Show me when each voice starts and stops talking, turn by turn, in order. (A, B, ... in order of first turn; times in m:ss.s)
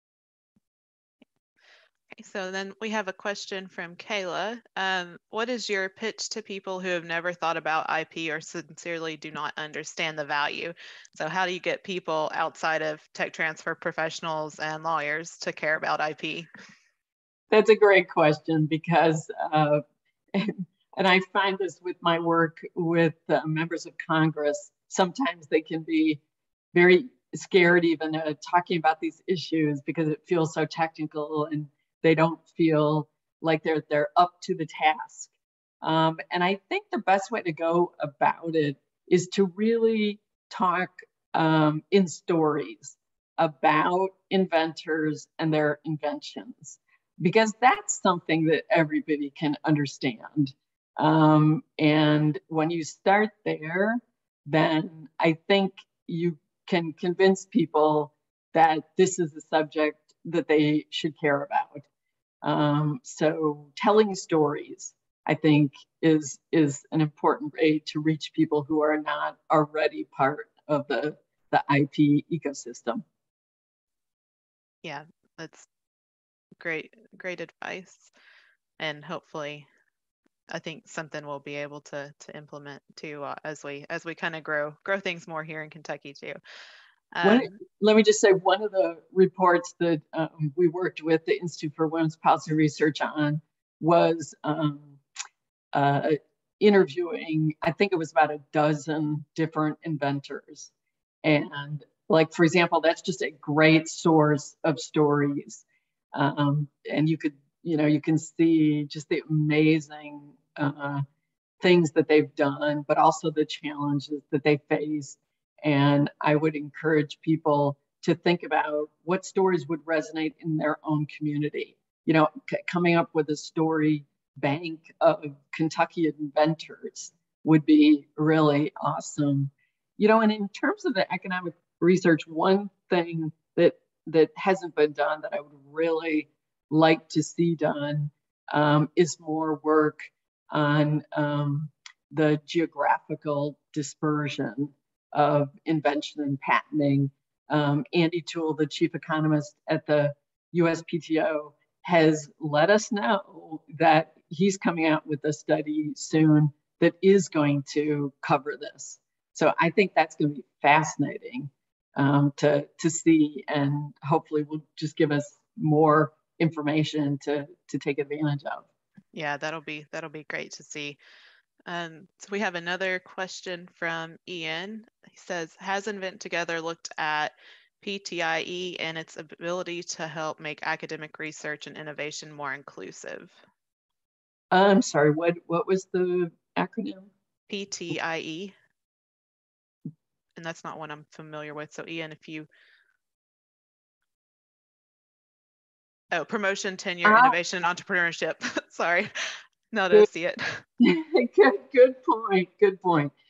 0:02.1-0:16.5 A
0:17.5-0:19.8 B
0:20.3-0:26.2 B
0:26.7-1:01.8 B
1:02.4-1:13.0 B
1:14.8-1:15.7 A
1:16.6-1:18.1 A
1:18.8-1:19.7 A
1:20.5-1:26.4 A
1:27.1-1:27.5 A
1:27.2-1:35.0 B
1:35.7-1:40.7 B
1:41.2-1:51.0 B
1:51.6-2:48.7 B
2:49.1-2:51.0 A
2:51.7-3:03.4 A
3:04.5-3:07.1 B
3:07.5-3:08.5 A
3:10.4-3:12.5 A
3:16.1-3:20.6 A
3:17.0-3:17.4 B
3:20.8-3:23.1 B